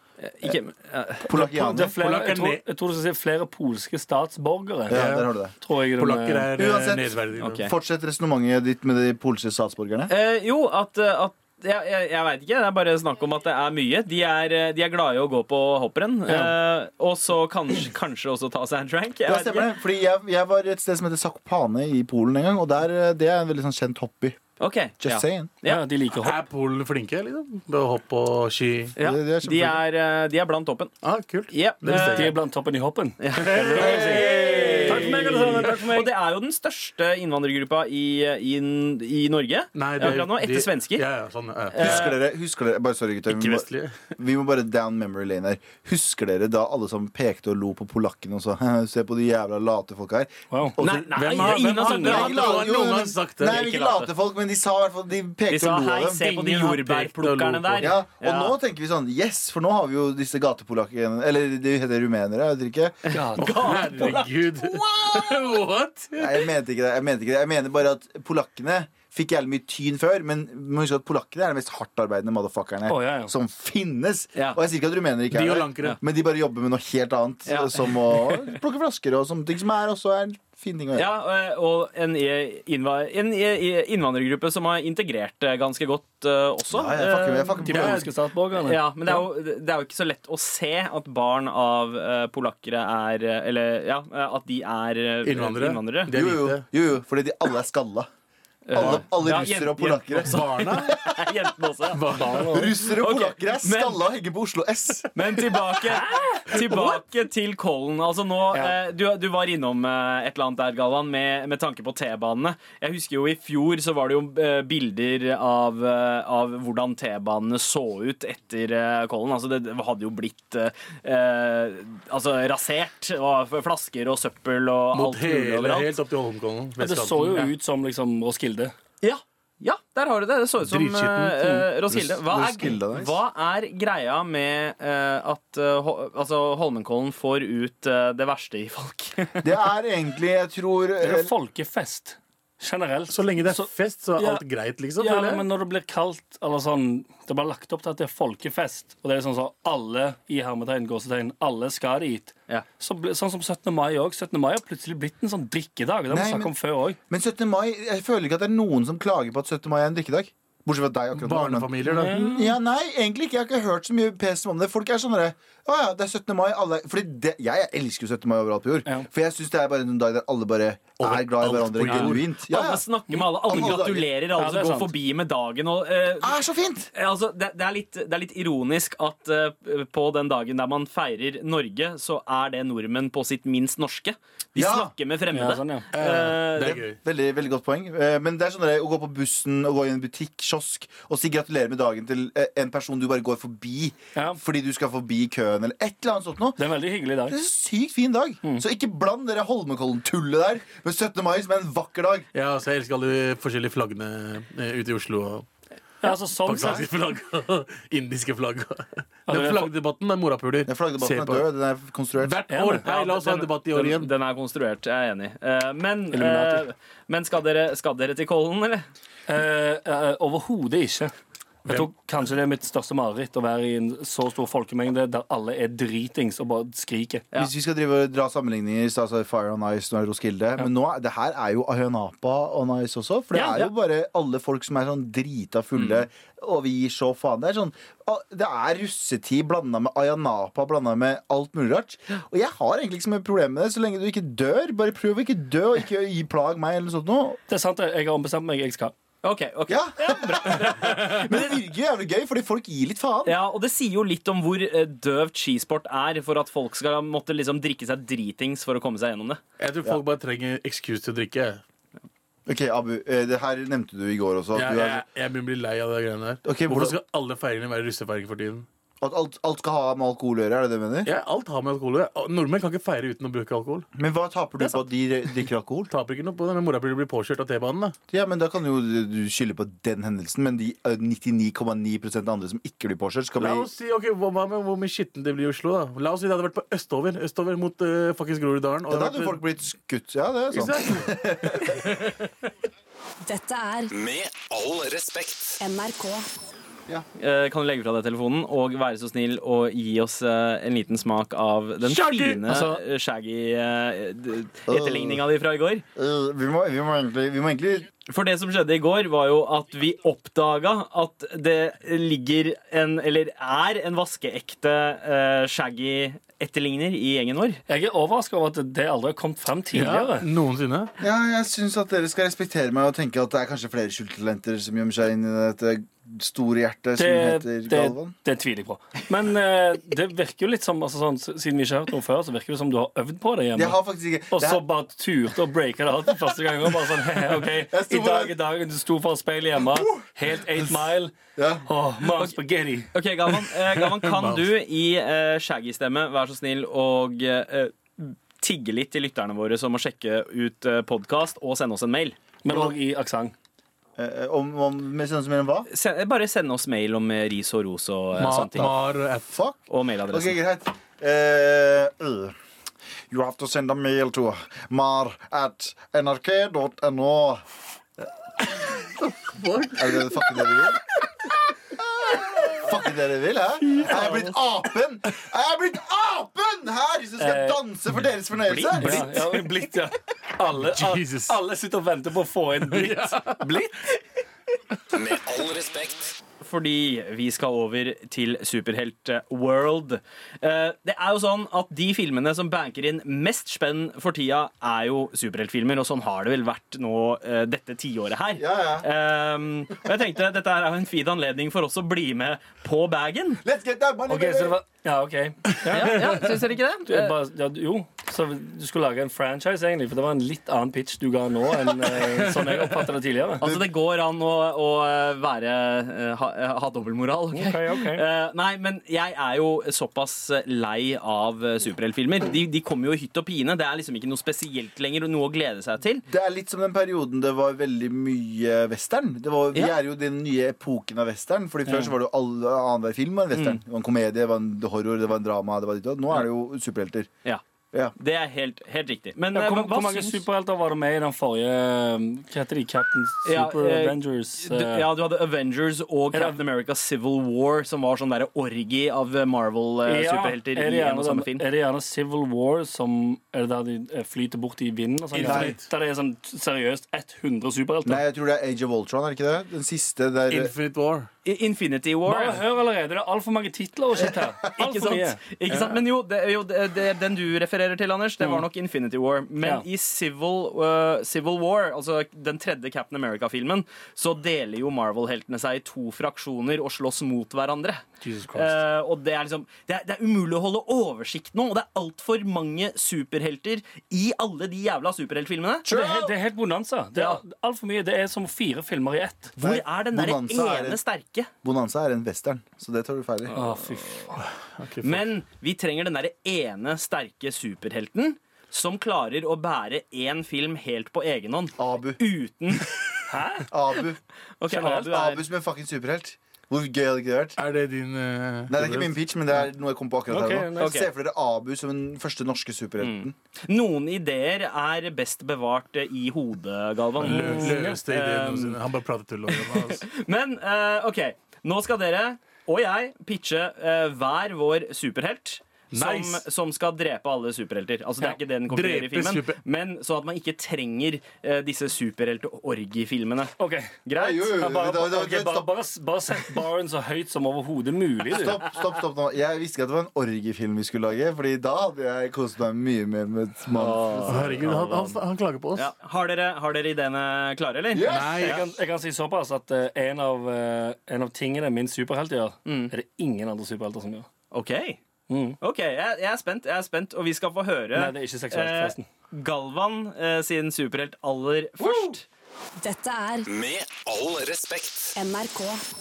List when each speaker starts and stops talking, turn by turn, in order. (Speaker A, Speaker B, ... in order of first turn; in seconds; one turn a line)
Speaker A: 0.2-1.2
Speaker B: 1.2-2.0
Speaker C: 1.3-5.0
Speaker D: 1.4-2.6
Speaker B: 4.9-5.5
Speaker D: 4.9-5.3
Speaker C: 5.6-6.5
Speaker D: 5.9-7.7
Speaker B: 6.5-10.1
Speaker A: 7.4-7.7
Speaker A: 10.1-19.7
Speaker C: 16.3-16.5
Speaker B: 19.2-24.4
Speaker A: 24.6-25.8
Speaker B: 25.0-25.5
Speaker C: 25.6-26.4
Speaker D: 26.1-28.9
Speaker A: 28.9-32.3
Speaker B: 29.0-29.8
Speaker D: 31.0-32.3
Speaker C: 31.9-36.1
Speaker A: 33.2-41.1
Speaker D: 33.3-35.9
Speaker B: 33.8-34.9
Speaker D: 39.7-42.1
Speaker A: 41.7-42.2
Speaker B: 41.7-56.2
Speaker D: 43.3-44.0
Speaker C: 50.5-50.8
Speaker A: 50.8-52.8
Speaker D: 51.1-53.6
Speaker C: 51.6-52.2
Speaker A: 53.4-54.1
Speaker A: 55.5-58.5
Speaker D: 56.2-58.0
Speaker B: 57.8-63.1
Speaker A: 63.1-65.2
Speaker C: 63.1-64.2
Speaker D: 63.4-66.3
Speaker B: 66.2-81.1
Speaker C: 72.9-73.3
Speaker D: 75.3-76.0
Speaker A: 77.5-78.5
Speaker A: 80.9-87.9
Speaker B: 86.7-88.1
Speaker C: 87.6-89.2
Speaker A: 88.5-96.1
Speaker D: 95.2-96.6
Speaker B: 96.1-98.1
Speaker A: 98.7-102.1
Speaker B: 98.7-101.3
Speaker D: 99.3-100.9
Speaker D: 101.9-102.7
Speaker C: 102.1-102.8
Speaker B: 102.5-105.6
Speaker A: 102.8-104.0
Speaker A: 105.1-125.9
Speaker C: 105.9-106.8
Speaker D: 124.9-127.5
Speaker C: 126.8-128.7
Speaker A: 129.0-139.5
Speaker D: 130.6-132.1
Speaker B: 132.2-133.2
Speaker B: 139.4-141.3
Speaker C: 141.0-144.4
Speaker D: 143.1-145.4
Speaker C: 145.0-157.0
Speaker B: 156.1-156.5
Speaker B: 157.1-172.8
Speaker D: 161.1-162.2
Speaker C: 161.9-162.5
Speaker D: 171.0-172.2
Speaker A: 171.8-176.4
Speaker C: 173.1-173.8
Speaker B: 173.4-174.1
Speaker C: 174.4-174.9
Speaker B: 176.2-176.9
Speaker A: 176.9-186.8
Speaker B: 184.5-184.9
Speaker C: 185.3-185.9
Speaker D: 185.9-187.0
Speaker B: 186.6-196.6
Speaker C: 194.1-194.4
Speaker C: 196.6-197.3
Speaker B: 197.3-202.3
Speaker D: 202.3-205.5
Speaker C: 206.0-206.9
Speaker D: 206.1-211.4
Speaker C: 209.3-209.7
Speaker B: 210.7-212.4
Speaker D: 212.2-214.1
Speaker C: 212.5-212.8
Speaker A: 212.8-218.8
Speaker C: 216.1-216.7
Speaker C: 219.3-221.1
Speaker D: 221.6-221.9
Speaker C: 221.7-227.2
Speaker B: 227.3-247.4
Speaker C: 233.3-233.7
Speaker A: 235.8-236.0
Speaker C: 247.5-248.9
Speaker A: 249.2-251.5
Speaker B: 249.7-253.4
Speaker A: 253.2-259.4
Speaker D: 259.6-261.6
Speaker B: 262.5-265.0
Speaker D: 264.5-268.7
Speaker B: 266.4-267.0
Speaker B: 269.0-271.1
Speaker D: 271.0-273.9
Speaker B: 273.9-275.9
Speaker D: 275.9-277.9
Speaker B: 278.1-283.7
Speaker D: 283.4-289.4
Speaker B: 288.9-291.8
Speaker D: 290.5-292.3
Speaker E: 293.2-293.9
Speaker F: 293.9-295.6
Speaker E: 295.6-296.2
Speaker A: 297.2-305.8
Speaker D: 301.8-302.7
Speaker C: 302.5-302.8
Speaker B: 304.7-305.2
Speaker B: 305.9-307.9
Speaker A: 308.1-317.6
Speaker C: 317.7-320.2
Speaker D: 319.7-320.9
Speaker B: 321.0-328.1
Speaker C: 327.0-333.8
Speaker B: 333.5-334.6
Speaker C: 334.3-341.1
Speaker B: 337.5-338.4
Speaker B: 341.4-341.7
Speaker C: 341.6-342.9
Speaker A: 342.9-352.2
Speaker D: 343.8-344.4
Speaker C: 352.4-353.3
Speaker B: 352.5-352.7
Speaker B: 354.0-355.7
Speaker A: 355.7-358.7
Speaker D: 358.2-359.3
Speaker B: 359.3-359.6
Speaker A: 359.7-360.4
Speaker B: 360.1-362.3
Speaker B: 363.1-367.4
Speaker D: 368.6-370.4
Speaker B: 369.7-370.8
Speaker B: 372.1-379.1
Speaker A: 373.7-374.3
Speaker C: 377.2-377.6
Speaker A: 378.4-379.2
Speaker C: 378.8-383.7
Speaker D: 380.6-381.4
Speaker D: 382.6-383.4
Speaker F: 384.9-386.1
Speaker A: 386.4-403.4
Speaker B: 398.4-398.9
Speaker B: 403.4-404.6
Speaker C: 404.1-406.0
Speaker A: 405.7-407.1
Speaker C: 406.9-413.4
Speaker B: 413.4-413.7
Speaker A: 413.4-426.1
Speaker C: 417.3-418.0
Speaker B: 426.1-437.1
Speaker A: 433.3-433.6
Speaker A: 437.9-440.2
Speaker C: 439.3-444.9
Speaker A: 443.2-451.4
Speaker C: 446.1-446.4
Speaker C: 449.9-458.0
Speaker D: 455.1-455.6
Speaker B: 455.2-455.6
Speaker B: 457.8-460.5
Speaker D: 460.3-461.1
Speaker A: 461.2-462.4
Speaker C: 462.1-465.4
Speaker A: 464.6-485.7
Speaker C: 469.4-469.6
Speaker C: 478.0-478.6
Speaker B: 485.6-486.1
Speaker C: 485.7-489.3
Speaker A: 489.4-491.3
Speaker B: 489.4-490.8
Speaker B: 491.4-493.4
Speaker C: 493.3-494.2
Speaker D: 494.6-495.0
Speaker A: 494.8-502.7
Speaker B: 501.6-502.0
Speaker C: 503.1-503.5
Speaker B: 503.5-504.0
Speaker A: 504.4-505.2
Speaker C: 504.5-504.9
Speaker B: 504.8-507.4
Speaker D: 507.4-508.9
Speaker B: 508.5-513.1
Speaker C: 510.1-510.7
Speaker A: 510.6-510.9
Speaker A: 512.8-518.6
Speaker D: 517.0-519.8
Speaker C: 517.0-517.8
Speaker A: 519.3-533.3
Speaker D: 525.7-526.2
Speaker D: 528.5-529.4
Speaker C: 533.4-538.4
Speaker A: 533.8-534.6
Speaker B: 534.0-535.5
Speaker B: 538.1-544.6
Speaker A: 543.6-545.0
Speaker C: 543.7-544.1
Speaker D: 544.1-545.7
Speaker A: 545.5-548.4
Speaker B: 547.7-548.2
Speaker D: 547.8-548.4
Speaker C: 548.1-554.1
Speaker A: 552.5-552.7
Speaker A: 554.3-554.8
Speaker C: 555.1-555.4
Speaker A: 555.4-562.0
Speaker C: 557.7-558.9
Speaker B: 561.6-561.9
Speaker E: 562.6-563.3
Speaker F: 563.3-565.0
Speaker E: 565.0-565.6